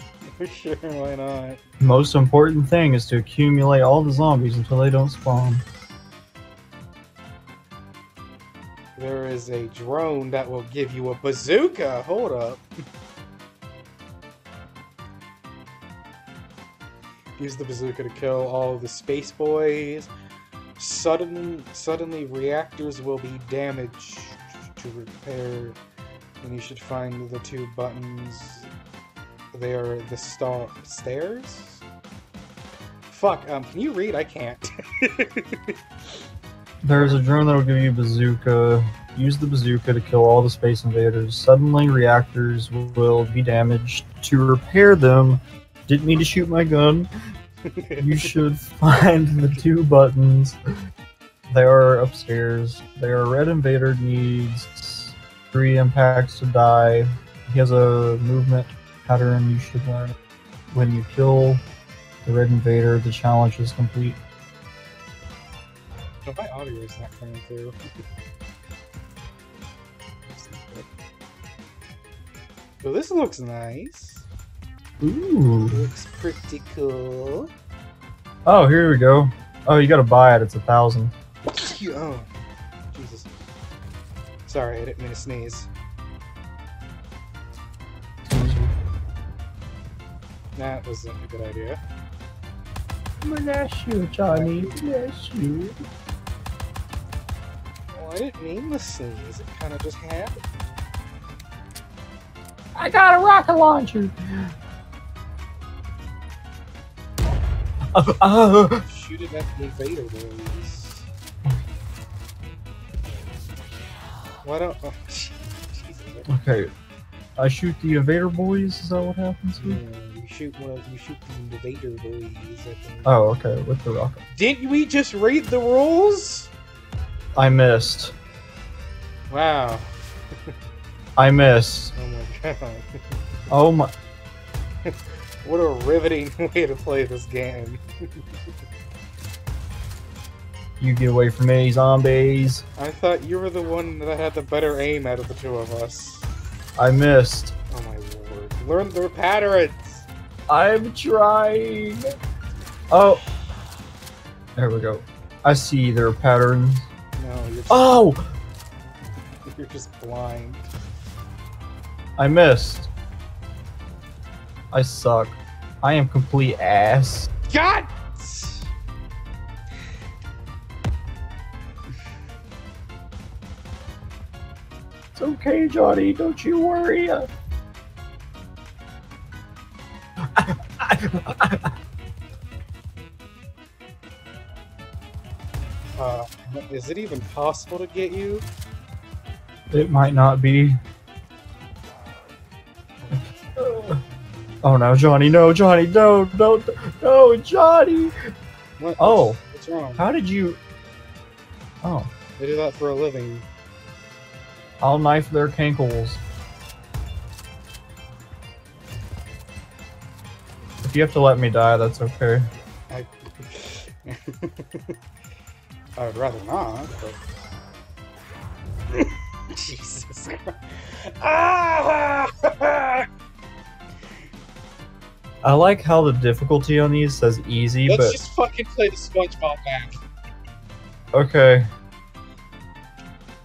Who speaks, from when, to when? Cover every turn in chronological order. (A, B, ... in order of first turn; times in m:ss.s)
0:00.3-0:01.6 A
0:01.8-0:05.6 B
0:09.0-0:12.6 A
0:17.4-0:20.1 A
0:20.8-0:25.8 A
0:26.4-0:28.7 A
0:29.5-0:31.8 A
0:33.1-0:35.8 A
0:36.8-0:47.1 B
0:36.9-0:37.4 A
0:47.6-0:48.4 A
0:48.0-0:50.6 B
0:51.5-1:00.1 B
1:00.7-1:01.6 B
1:02.2-1:04.2 B
1:06.2-1:07.8 A
1:10.2-1:10.9 A
1:12.8-1:14.2 A
1:15.0-1:15.8 B
1:15.7-1:17.5 A
1:18.4-1:21.1 B
1:21.5-1:22.3 A
1:22.9-1:23.3 A
1:24.4-1:25.7 A
1:28.2-1:28.7 B
1:30.6-1:31.8 A
1:33.2-1:35.8 B
1:34.3-1:35.0 A
1:37.9-1:40.4 A
1:42.7-1:44.1 B
1:47.9-1:48.8 B
1:48.8-1:51.1 A
1:54.4-1:56.3 A
1:56.3-1:56.7 B
1:57.4-1:59.8 B
1:59.6-2:03.1 A
2:03.0-2:04.2 B
2:04.3-2:06.5 A
2:07.4-2:08.1 B
2:09.3-2:09.9 A
2:11.2-2:11.9 B
2:11.9-2:13.2 A
2:13.5-2:13.9 B
2:14.8-2:18.2 A
2:20.8-2:22.6 B
2:22.8-2:26.3 A
2:26.8-2:27.5 B
2:27.7-2:30.1 A
2:30.5-2:32.1 B
2:32.9-2:33.2 B
2:34.6-2:36.8 B
2:37.2-2:38.0 A
2:37.7-2:38.3 B
2:39.4-2:40.7 A
2:42.2-2:42.9 B
2:44.7-2:47.3 B
2:47.5-2:48.7 A
2:55.1-2:57.3 B
3:00.4-3:01.7 B
3:06.0-3:08.4 A
3:09.7-3:10.8 B
3:13.0-3:13.5 A
3:13.6-3:14.0 B
3:14.6-3:18.1 B
3:18.8-3:20.0 A
3:19.0-3:19.4 B
3:20.0-3:20.6 B
3:21.8-3:22.1 B
3:22.4-3:23.5 A
3:24.8-3:26.2 B
3:30.8-3:32.5 B
3:32.9-3:35.0 A
3:36.0-3:37.2 A
3:38.9-3:43.1 A
3:45.4-3:48.2 B
3:47.9-3:50.0 A
3:51.1-3:51.6 B